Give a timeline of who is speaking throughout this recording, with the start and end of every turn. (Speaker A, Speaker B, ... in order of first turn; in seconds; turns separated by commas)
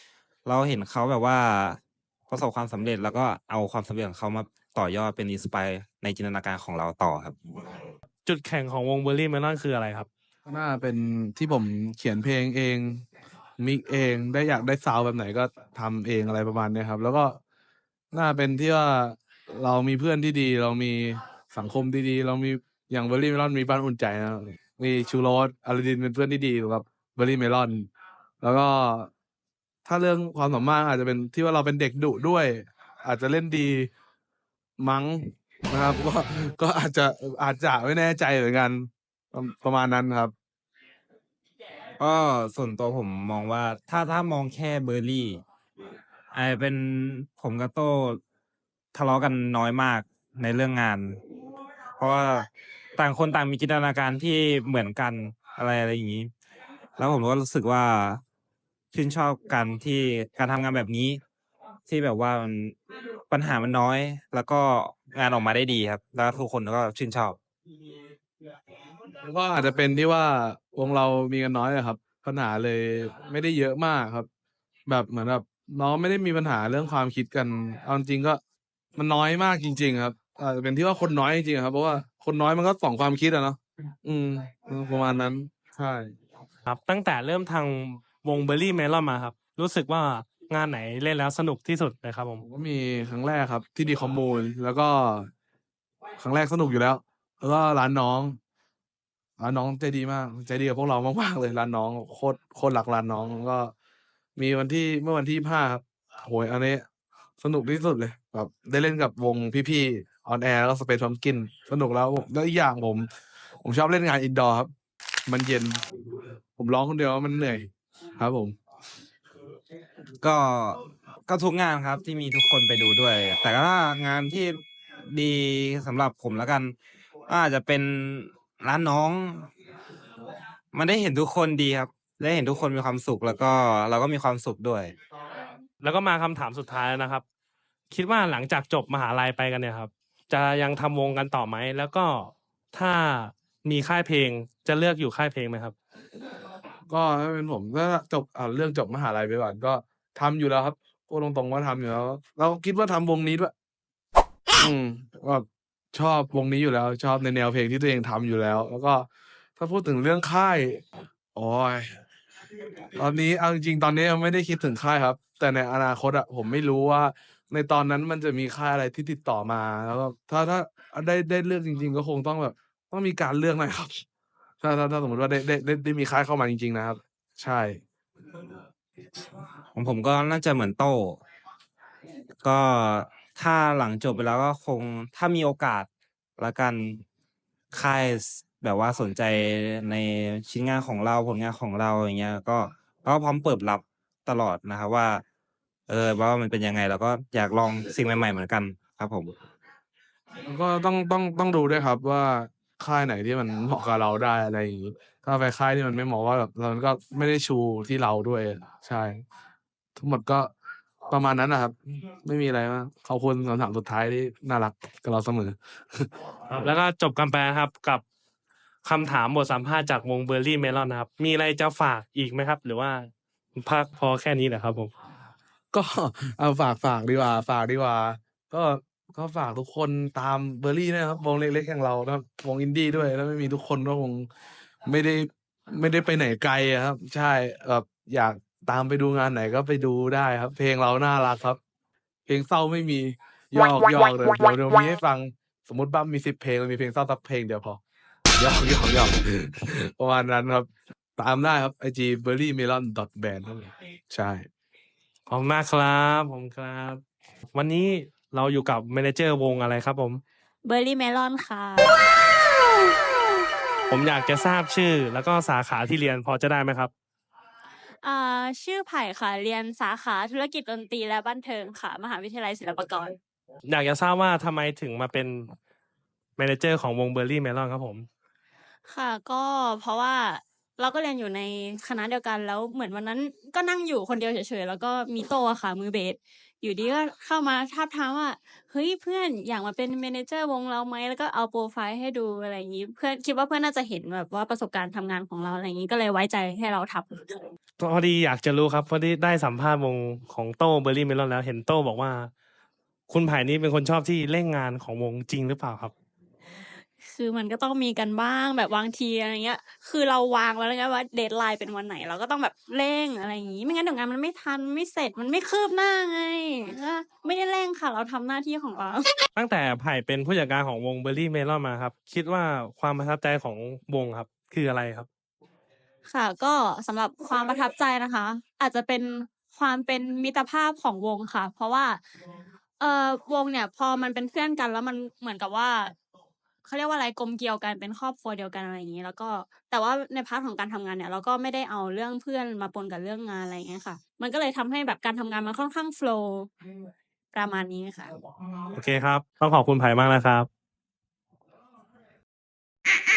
Speaker A: 0.5-7.4, Speaker B: 8.2-10.1, Speaker C: 10.5-13.0, Speaker C: 13.6-17.4, Speaker C: 18.1-27.9, Speaker C: 28.4-29.1, Speaker C: 29.9-33.9, Speaker C: 34.8-40.3, Speaker A: 42.0-45.4, Speaker A: 46.3-48.2, Speaker A: 48.9-51.2, Speaker A: 52.0-56.3, Speaker A: 57.0-58.2, Speaker A: 58.9-61.2, Speaker A: 61.9-62.8, Speaker A: 63.3-67.4, Speaker C: 69.2-74.3, Speaker C: 74.9-78.4, Speaker C: 79.0-86.2, Speaker B: 86.7-92.4, Speaker C: 92.4-95.3, Speaker C: 96.2-98.4, Speaker C: 99.4-103.7, Speaker C: 104.4-106.9, Speaker C: 107.4-113.1, Speaker C: 113.6-114.7, Speaker C: 115.3-115.8, Speaker C: 116.6-118.6, Speaker A: 120.2-126.8, Speaker A: 127.3-129.5, Speaker A: 130.7-134.9, Speaker B: 135.8-137.2, Speaker B: 137.9-145.8, Speaker C: 146.9-153.5, Speaker C: 154.6-161.9, Speaker C: 163.0-174.0, Speaker C: 174.6-177.8, Speaker A: 179.8-181.2, Speaker A: 182.4-187.0, Speaker A: 187.7-195.2, Speaker A: 195.9-199.3, Speaker C: 200.4-209.2, Speaker C: 210.0-210.5, Speaker C: 211.1-216.7, Speaker B: 216.5-218.0, Speaker B: 218.8-224.9, Speaker C: 225.7-234.3, Speaker C: 234.8-241.6, Speaker C: 242.3-247.8, Speaker C: 248.3-254.5, Speaker B: 255.3-260.2, Speaker D: 260.6-262.0, Speaker B: 263.9-266.9, Speaker D: 268.0-273.2, Speaker B: 273.6-275.5, Speaker B: 276.4-278.1, Speaker D: 278.9-297.5, Speaker B: 297.8-302.3, Speaker B: 303.1-305.9, Speaker D: 307.0-319.2, Speaker B: 319.4-325.1, Speaker D: 326.1-332.0, Speaker D: 332.8-335.9, Speaker D: 336.6-346.5, Speaker D: 347.3-348.1, Speaker B: 348.7-350.5